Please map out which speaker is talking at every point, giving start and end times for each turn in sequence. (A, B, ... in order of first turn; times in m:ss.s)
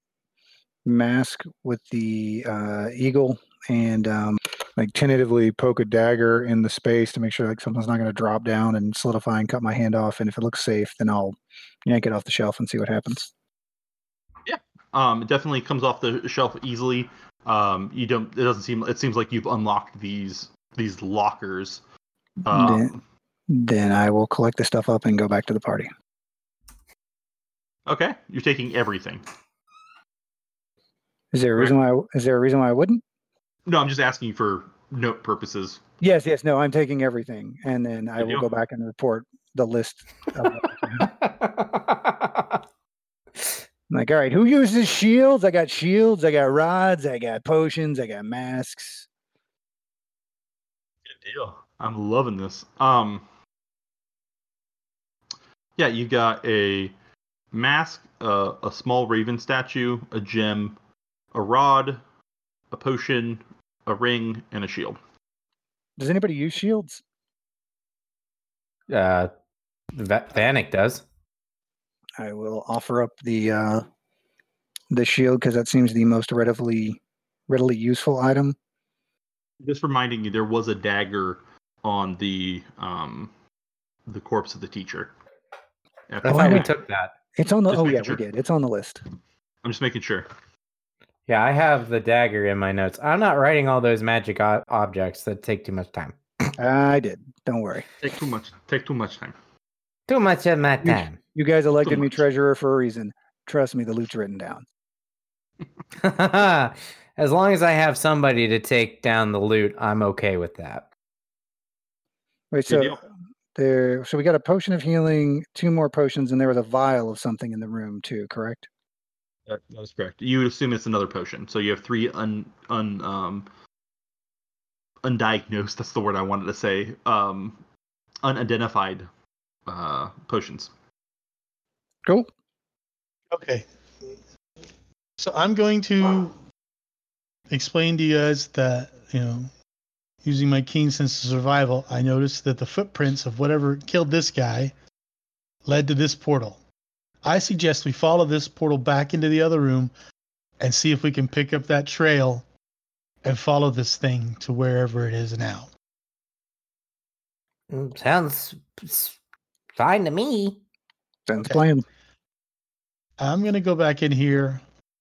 0:00.9-0:13.3 A
0:14.5-0:21.8 B
0:22.4-0:23.0 B
0:22.5-0:22.9 A
0:23.5-0:25.9 A
0:27.9-0:29.3 B
0:31.3-0:33.0 A
0:33.7-0:35.8 B
0:36.0-0:41.1 A
0:38.2-0:38.5 B
0:41.0-0:42.6 C
0:43.9-0:49.1 A
0:51.1-0:53.2 B
0:55.8-0:56.9 B
0:57.5-1:00.8 B
1:01.3-1:02.0 B
1:02.7-1:05.0 B
1:06.0-1:07.0 A
1:08.9-1:09.3 C
1:09.9-1:11.0 C
1:12.2-1:13.8 A
1:14.9-1:18.6 A
1:19.6-1:23.3 B
1:24.1-1:25.1 B
1:26.1-1:26.7 B
1:26.2-1:27.1 C
1:26.3-1:26.7 A
1:27.4-1:29.0 A
1:27.7-1:28.2 B
1:29.6-1:30.3 B
1:31.3-1:36.5 C
1:36.6-1:37.9 A
1:38.0-1:39.4 B
1:40.1-1:41.2 C
1:40.8-1:44.6 A
1:41.8-1:42.1 B
1:46.0-1:50.9 C
1:52.5-1:53.0 A
1:52.7-1:53.0 B
1:53.6-1:58.7 A
1:59.5-2:03.5 B
2:05.0-2:07.6 B
2:08.2-2:09.1 B
2:09.7-2:10.7 B
2:13.3-2:13.7 D
2:15.2-2:16.3 D
2:17.5-2:19.5 D
2:20.2-2:24.7 D
2:25.6-2:26.6 D
2:27.2-2:29.9 D
2:30.6-2:32.4 D
2:33.2-2:35.7 D
2:37.7-2:39.2 C
2:39.8-2:40.6 C
2:41.3-2:41.8 A
2:43.2-2:44.6 D